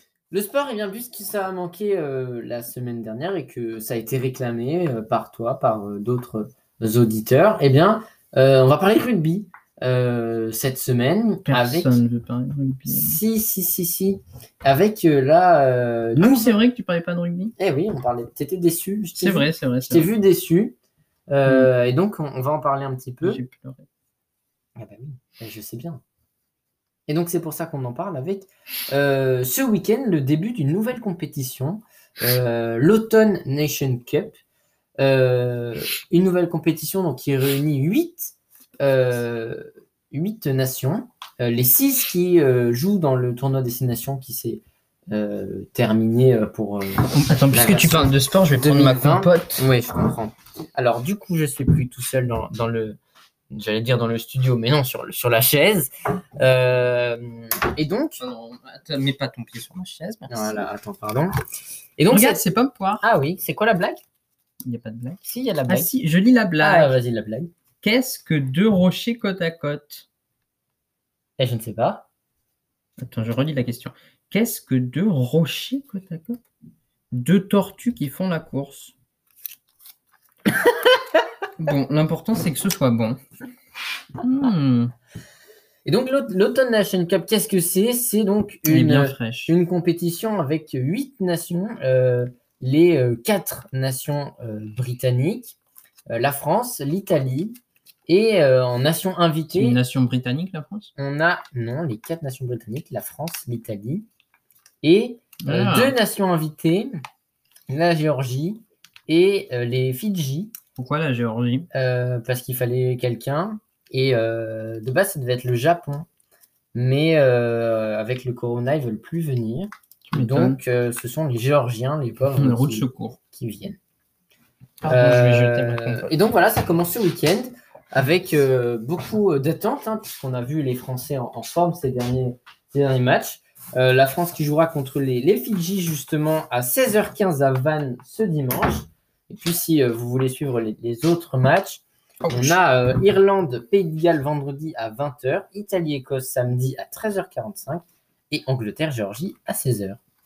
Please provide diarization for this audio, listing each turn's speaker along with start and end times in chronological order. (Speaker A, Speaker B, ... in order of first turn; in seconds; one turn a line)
Speaker A: 0.3-12.0
Speaker B: 11.5-13.2
Speaker A: 12.9-16.6
Speaker B: 16.2-17.5
Speaker A: 17.6-20.8
Speaker B: 19.2-20.1
Speaker A: 21.3-23.4
Speaker B: 23.2-23.9
Speaker A: 24.8-26.0
Speaker A: 27.1-34.4
Speaker A: 35.0-53.0
Speaker B: 47.1-49.7
Speaker A: 53.5-58.2
Speaker B: 58.2-60.7
Speaker A: 60.3-61.3
Speaker A: 62.0-62.4
Speaker B: 62.1-63.0
Speaker A: 63.0-64.0
Speaker B: 64.6-66.9
Speaker A: 65.2-65.9
Speaker A: 66.6-67.5
Speaker B: 67.8-70.1
Speaker A: 71.4-72.1
Speaker B: 73.0-76.4
Speaker B: 77.1-78.9
Speaker B: 81.6-83.2
Speaker B: 84.2-84.9
Speaker A: 85.8-95.6
Speaker B: 88.7-89.5
Speaker A: 96.1-99.8
Speaker B: 99.5-100.9
Speaker A: 101.0-104.1
Speaker A: 104.8-107.0
Speaker B: 105.4-105.9
Speaker A: 107.7-110.5
Speaker B: 110.8-111.7
Speaker A: 111.7-116.1
Speaker A: 116.7-123.8
Speaker B: 120.1-120.6
Speaker B: 122.3-123.2
Speaker B: 124.8-126.1
Speaker A: 124.8-150.0
Speaker B: 142.2-142.6